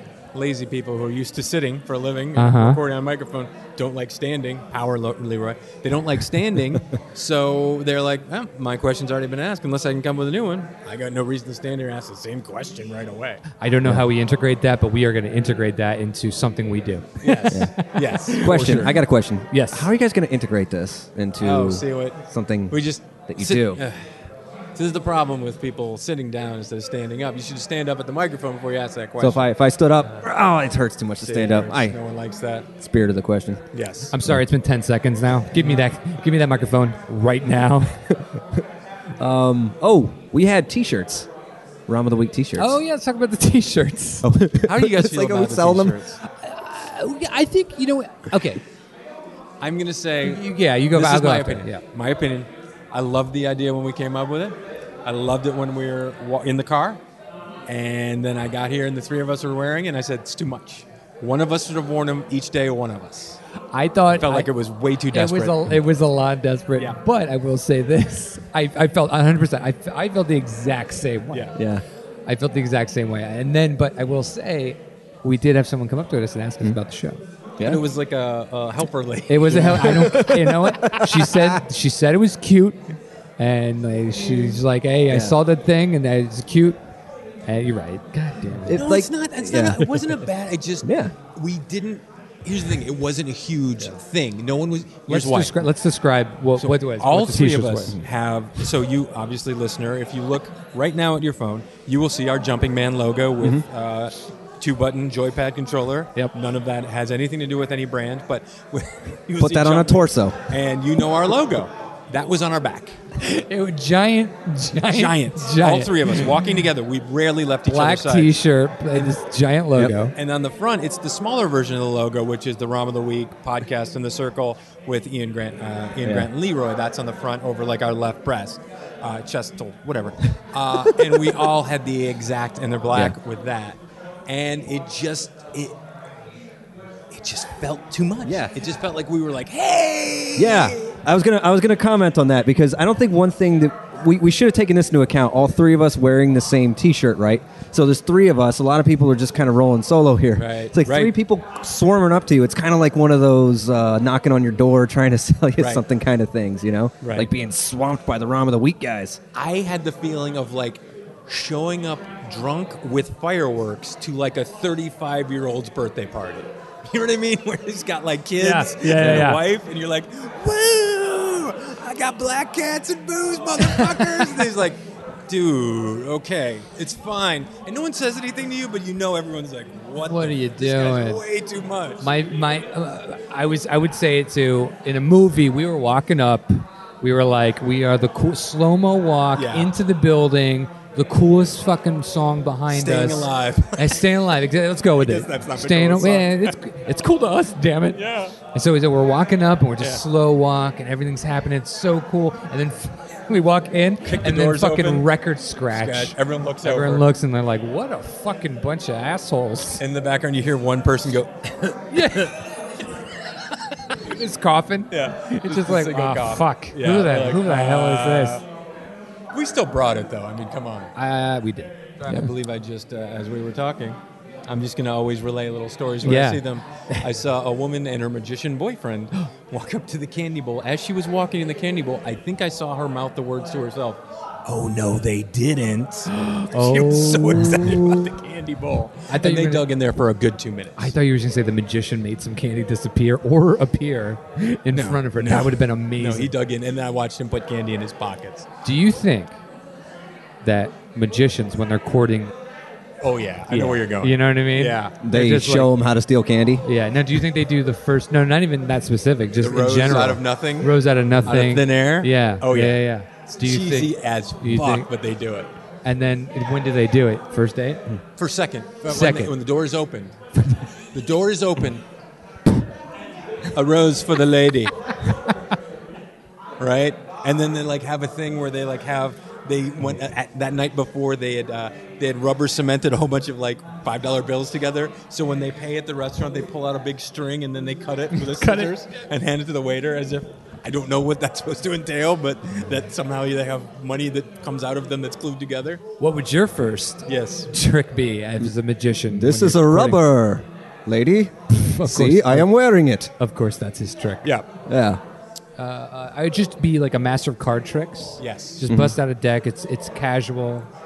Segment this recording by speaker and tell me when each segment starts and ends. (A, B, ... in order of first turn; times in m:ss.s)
0:00.3-0:13.4 A
0:02.4-0:02.8 B
0:13.6-0:18.9 B
0:17.2-0:19.0 A
0:17.5-0:17.7 C
0:18.4-0:23.8 C
0:19.5-0:19.9 B
0:21.4-0:24.1 A
0:24.8-0:29.5 A
0:29.2-0:32.0 C
0:31.2-0:32.7 A
0:32.8-0:33.6 C
0:33.7-0:34.1 A
0:34.1-0:38.0 B
0:35.6-0:35.8 A
0:38.1-0:38.6 C
0:39.2-0:41.3 C
0:41.9-0:42.8 C
0:42.6-0:44.3 B
0:44.2-0:46.0 C
0:44.6-0:46.2 A
0:46.2-0:48.6 B
0:49.6-0:57.0 A
0:50.2-0:51.8 B
0:57.7-1:03.4 A
1:03.7-1:04.5 B
1:04.1-1:05.6 A
1:05.1-1:11.6 B
1:11.3-1:11.6 A
1:11.5-1:11.8 C
1:12.3-1:17.2 B
1:17.6-1:20.4 A
1:19.3-1:26.8 B
1:19.5-1:21.6 C
1:25.1-1:25.4 C
1:27.5-1:28.8 B
1:28.6-1:30.2 C
1:28.6-1:35.7 A
1:30.8-1:31.1 C
1:35.1-1:38.0 B
1:36.6-1:53.0 A
1:49.4-1:50.4 C
1:53.2-1:56.4 B
1:54.8-1:58.4 A
1:57.6-2:00.1 B
2:00.1-2:15.7 A
2:06.0-2:06.3 C
2:10.8-2:11.2 C
2:17.1-2:20.9 A
2:18.2-2:18.6 C
2:20.4-2:39.2 C
2:30.4-2:31.1 A
2:37.0-2:37.3 A
2:39.3-3:02.1 A
2:48.4-2:49.4 B
2:49.0-2:49.3 C
2:53.6-2:54.5 B
3:00.0-3:01.2 B
3:02.0-3:29.8 B
3:09.4-3:09.7 A
3:12.7-3:14.0 A
3:14.9-3:16.6 A
3:17.9-3:18.3 A
3:24.0-3:25.1 A
3:25.7-3:27.0 A
3:29.8-3:32.5 A
3:31.9-3:32.4 B
3:33.9-3:38.4 B
3:34.9-3:38.4 A
3:39.3-3:40.9 A
3:40.9-3:41.7 B
3:42.0-4:00.9 A
3:46.0-3:47.0 B
3:56.1-3:58.1 B
3:59.1-3:59.7 B
4:00.8-4:06.3 B
4:04.7-4:08.5 A
4:08.6-4:09.4 B
4:10.4-4:12.3 B
4:13.0-4:14.9 A
4:13.5-4:15.7 B
4:15.0-4:16.6 C
4:16.6-4:24.9 B
4:19.4-4:20.7 A
4:21.2-4:22.8 A
4:23.3-4:25.5 A
4:25.8-4:27.8 B
4:28.2-4:30.1 A
4:28.8-4:29.3 B
4:30.4-4:30.6 B
4:30.9-4:31.8 A
4:33.5-4:34.7 A
4:36.6-4:55.8 A
4:48.1-4:48.7 B
4:56.0-5:00.0 B
4:57.0-4:57.5 A
4:59.1-5:03.1 C
5:01.5-5:02.5 B
5:03.2-5:04.3 B
5:04.7-5:05.0 C
5:05.6-5:10.7 B
5:08.2-5:08.6 A
5:08.7-5:09.0 C